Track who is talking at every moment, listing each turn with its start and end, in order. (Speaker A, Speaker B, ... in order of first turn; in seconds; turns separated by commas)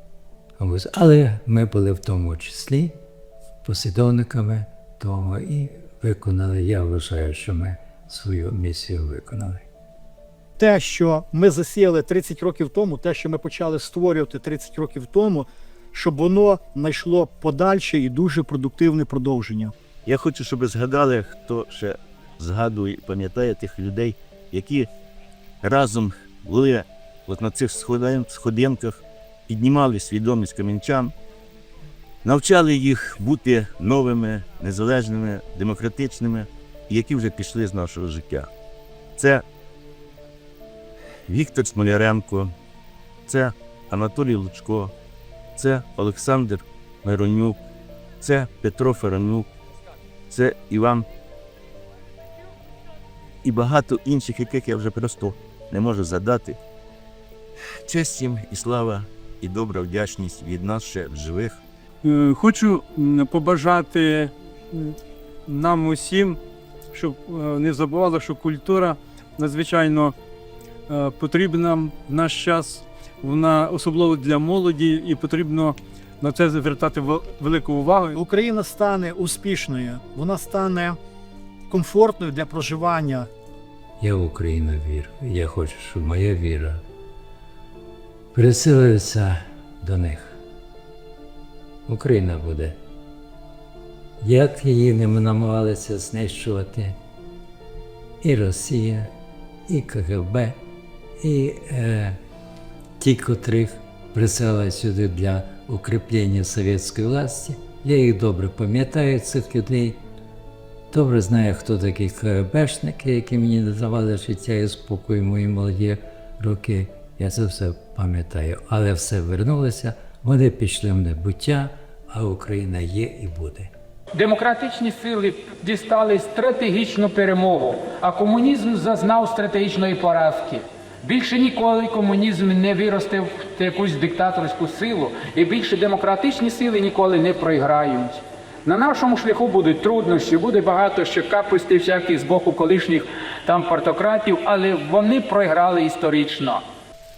Speaker A: 0.6-3.0, Speaker A: 3.6-9.6, Speaker B: 10.6-19.7, Speaker C: 20.0-24.9, Speaker C: 25.6-31.1, Speaker C: 32.2-38.5, Speaker C: 39.2-39.4, Speaker C: 41.3-42.5, Speaker C: 43.3-44.9, Speaker C: 45.6-47.6, Speaker C: 48.2-49.5, Speaker C: 50.3-51.1, Speaker C: 53.4-56.6, Speaker C: 57.9-61.6, Speaker D: 62.0-66.4, Speaker D: 66.9-70.1, Speaker D: 70.9-78.2, Speaker B: 78.2-81.0, Speaker B: 81.7-83.3, Speaker A: 84.0-86.8, Speaker A: 88.3-90.4, Speaker A: 91.9-92.8, Speaker A: 94.2-97.0, Speaker A: 98.2-99.1, Speaker A: 99.7-100.6, Speaker A: 101.2-102.2, Speaker A: 103.0-110.0, Speaker A: 110.9-123.7, Speaker E: 124.1-146.6